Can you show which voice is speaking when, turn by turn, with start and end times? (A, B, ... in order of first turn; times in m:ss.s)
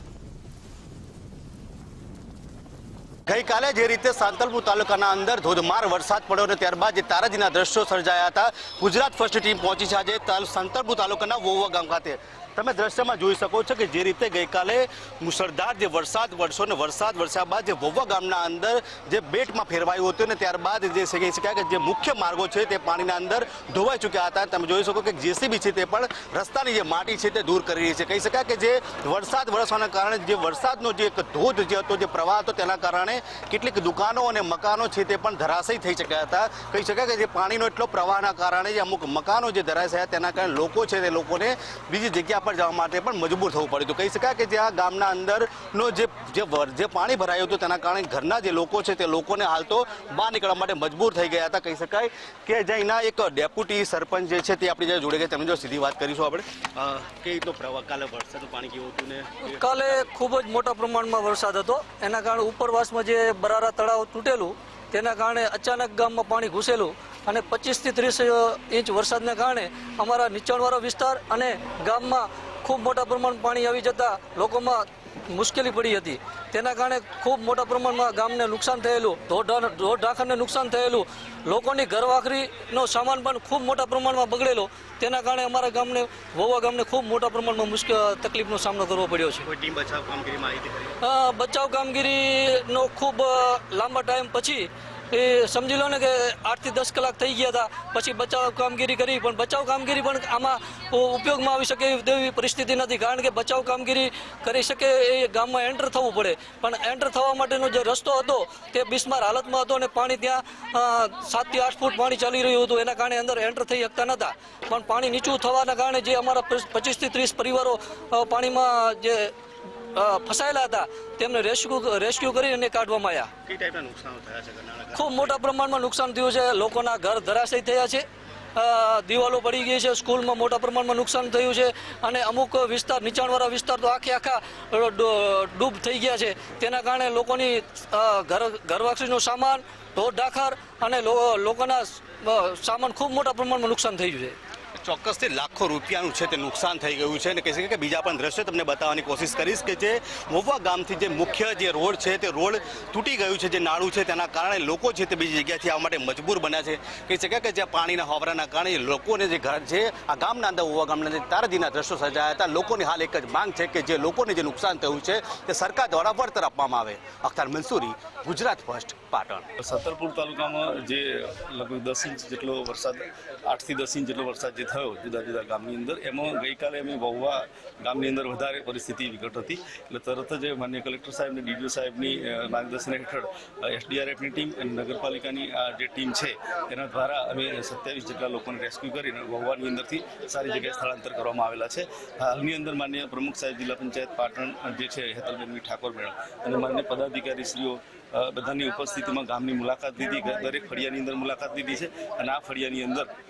0:03.3-1:00.1 A
0:59.4-1:29.5 B
1:29.4-1:31.0 A
1:31.0-1:59.3 B
1:59.9-2:03.3 B
2:03.4-2:05.4 A
2:04.9-2:08.0 B
2:08.6-2:24.4 B
2:24.7-2:49.5 A
2:49.6-3:23.1 C